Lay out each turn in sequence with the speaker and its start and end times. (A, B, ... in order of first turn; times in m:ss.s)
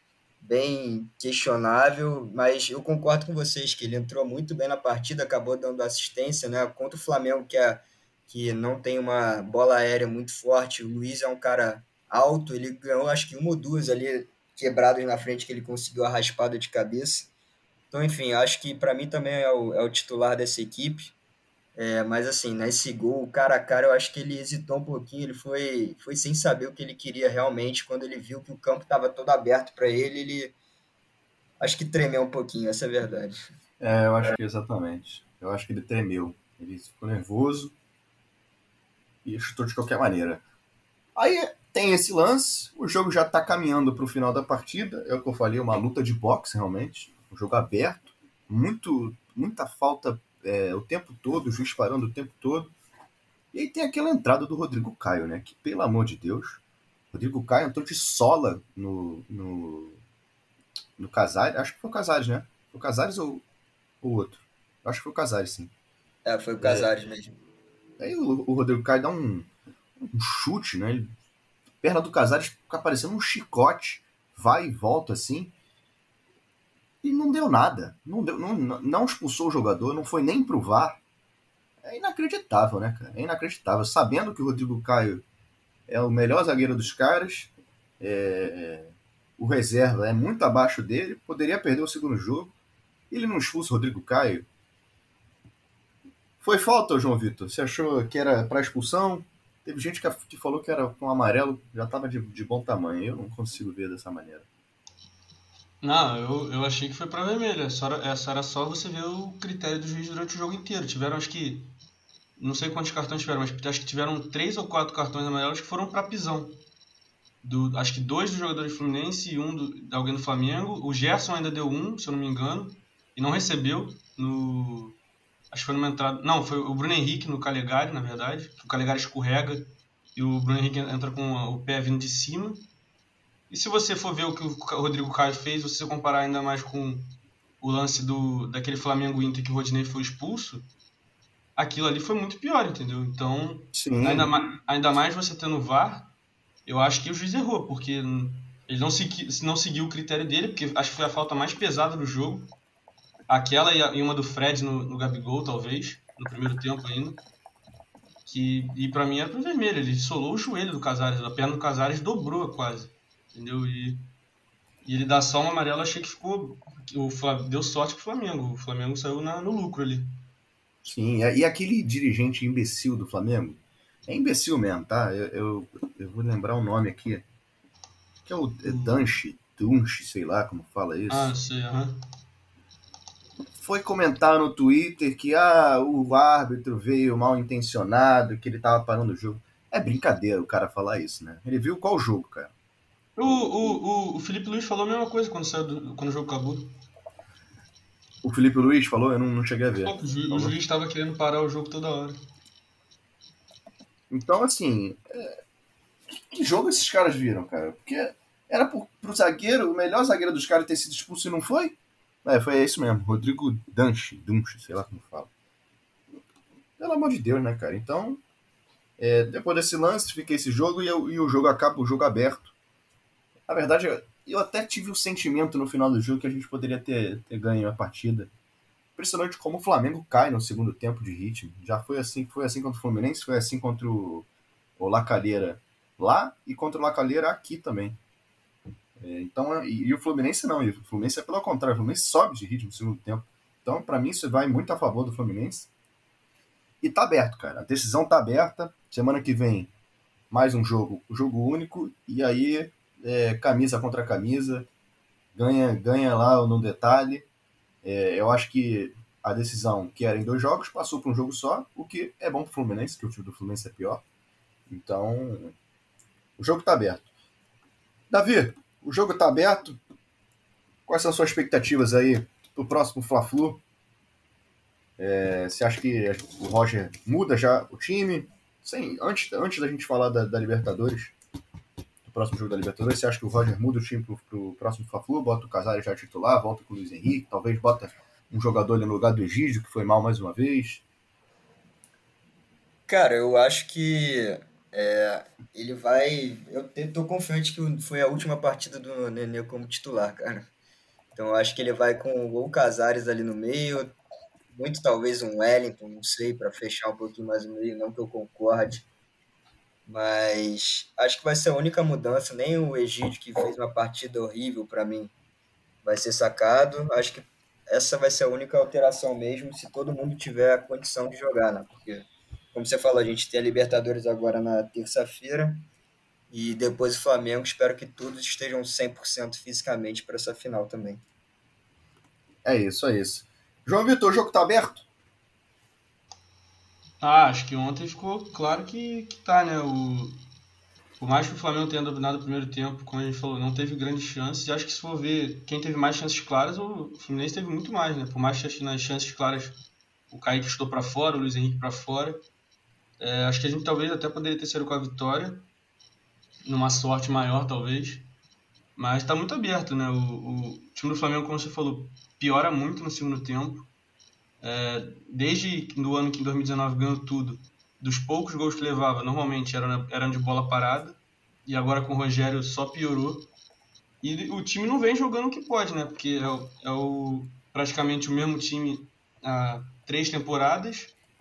0:00.4-0:17.3 A
0:17.9-0:21.1 A
0:21.8-0:30.5 A
0:31.6-0:33.5 A
0:33.8-0:37.7 B
0:39.2-0:40.4 B
0:41.2-0:52.7 B
0:53.5-0:56.6 B
0:57.1-1:00.0 B
1:01.0-1:03.4 B
1:04.0-1:05.7 B
1:06.2-1:07.4 A
1:06.6-1:06.9 B
1:08.0-1:11.1 B
1:11.8-1:15.5 B
1:17.0-1:21.0 B
1:21.8-1:25.2 B
1:25.9-1:32.5 B
1:33.1-1:34.4 B
1:36.4-1:44.4 B
1:45.8-1:51.7 C
1:52.4-1:56.6 C
1:57.4-2:05.0 C
2:05.5-2:12.6 C
2:13.5-2:20.7 C
2:21.6-2:26.1 C
2:23.7-2:24.3 B
2:26.6-2:32.5 C
2:33.3-2:37.2 C
2:38.2-2:44.1 C
2:44.8-2:50.2 C
2:50.8-2:57.2 B
2:58.2-3:01.3 B
2:58.6-2:59.1 C
3:01.1-3:02.0 C
3:03.6-3:12.5 B
3:13.2-3:16.8 C
3:18.2-3:20.6 B
3:19.8-3:22.2 C
3:24.1-3:25.3 B
3:26.1-3:35.3 B
3:36.8-3:38.2 B
3:39.0-3:42.5 B
3:43.5-3:48.3 B
3:49.0-3:54.3 B
3:54.8-3:58.0 B
3:59.0-4:05.7 B
4:06.8-4:09.7 B
4:10.3-4:14.7 B
4:15.3-4:17.3 B
4:17.8-4:24.0 B
4:24.7-4:25.5 B
4:26.4-4:27.1 B
4:28.1-4:29.8 B
4:30.9-4:33.6 B
4:35.0-4:41.1 B
4:42.0-4:50.8 B
4:52.9-5:00.5 A
5:01.2-5:03.9 A
5:04.5-5:08.9 A
5:09.9-5:15.1 A
5:15.8-5:25.6 A
5:26.3-5:31.0 A
5:32.4-5:34.8 B
5:37.0-5:40.2 C
5:41.0-5:49.6 C
5:50.1-5:52.2 C
5:53.0-5:55.5 C
5:56.4-5:58.1 C
5:58.8-6:03.7 C
6:04.4-6:13.3 C
6:14.0-6:20.9 C